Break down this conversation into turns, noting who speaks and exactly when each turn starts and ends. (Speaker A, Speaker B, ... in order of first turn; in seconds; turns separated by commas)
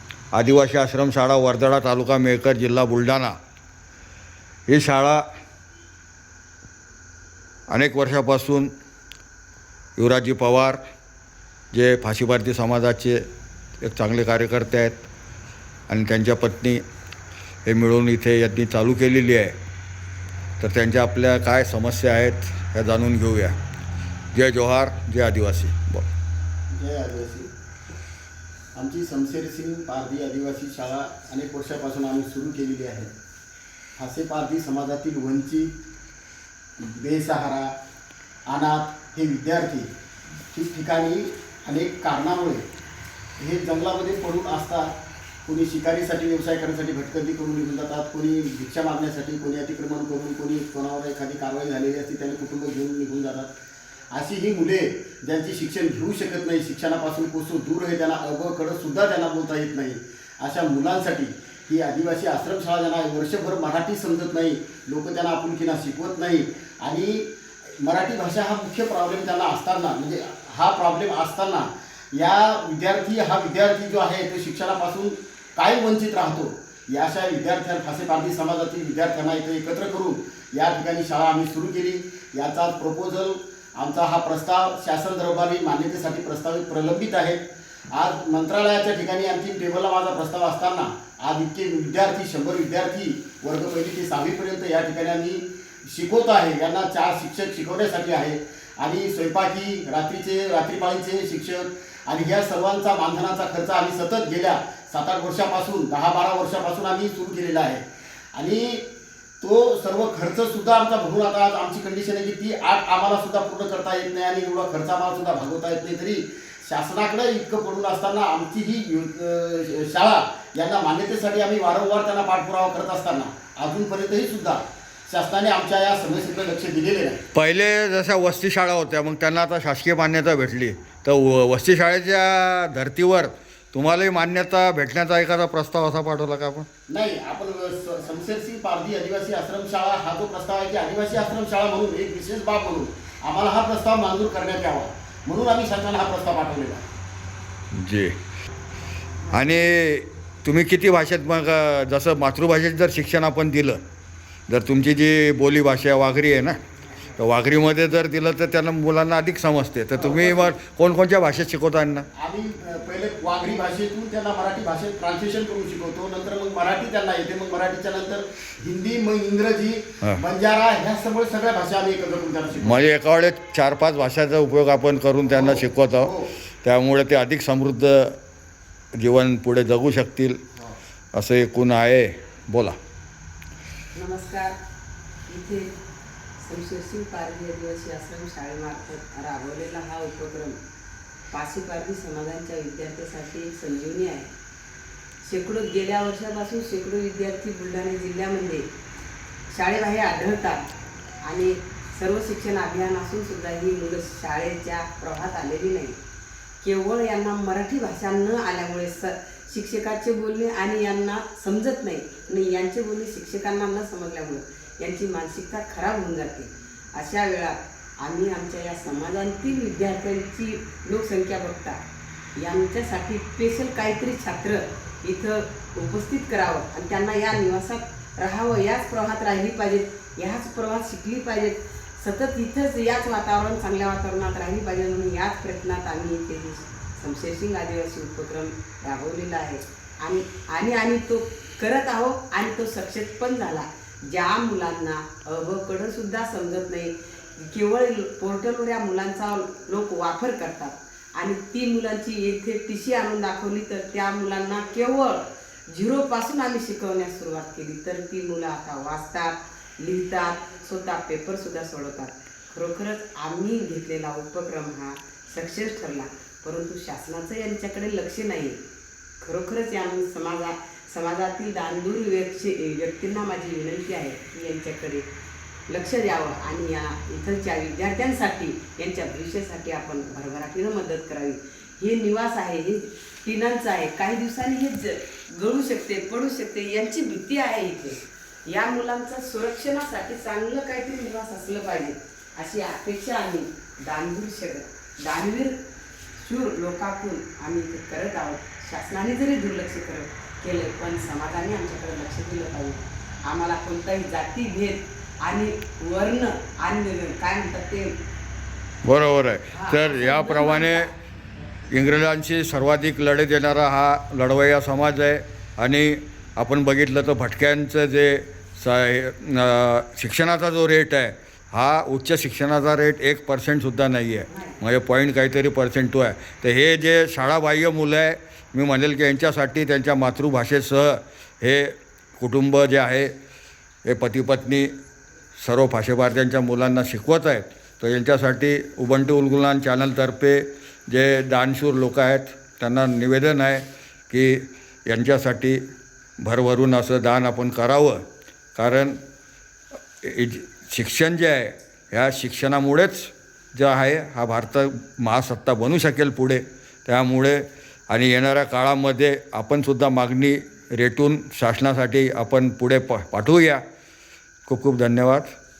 Speaker A: 0.3-3.4, Speaker A: 4.7-5.2, Speaker A: 7.7-8.7, Speaker A: 10.0-10.8, Speaker A: 11.7-13.2, Speaker A: 13.8-14.9, Speaker A: 15.9-16.8, Speaker A: 17.7-19.6, Speaker A: 20.6-23.6, Speaker A: 24.3-26.1, Speaker B: 26.7-27.5, Speaker B: 28.8-33.1, Speaker B: 34.0-35.7, Speaker B: 36.8-37.7, Speaker B: 38.5-39.9, Speaker B: 40.5-42.6, Speaker B: 43.4-44.9, Speaker B: 45.5-53.5, Speaker B: 54.1-107.8, Speaker B: 108.3-108.9, Speaker B: 109.4-127.2, Speaker A: 127.3-136.7, Speaker B: 136.9-146.9, Speaker A: 147.7-148.2, Speaker A: 149.3-153.8, Speaker A: 154.5-156.6, Speaker A: 157.2-162.1, Speaker B: 160.0-160.6, Speaker B: 162.1-172.8, Speaker A: 172.6-176.1, Speaker B: 175.3-176.3, Speaker A: 176.6-178.2, Speaker A: 179.0-180.4, Speaker A: 181.1-182.8, Speaker C: 183.9-184.6, Speaker C: 185.3-185.7, Speaker C: 186.4-190.6, Speaker C: 191.3-194.3, Speaker C: 195.3-198.7, Speaker C: 199.5-200.6, Speaker C: 201.3-206.0, Speaker C: 206.6-221.8, Speaker C: 222.4-268.6, Speaker C: 269.2-275.1, Speaker C: 275.7-295.6, Speaker C: 296.2-308.0, Speaker A: 308.9-310.9, Speaker C: 309.5-310.9, Speaker A: 311.7-333.1, Speaker C: 324.3-324.6, Speaker A: 333.9-334.7, Speaker A: 335.4-345.6, Speaker A: 346.2-348.0, Speaker A: 348.6-349.0, Speaker A: 350.0-363.6, Speaker A: 364.5-365.3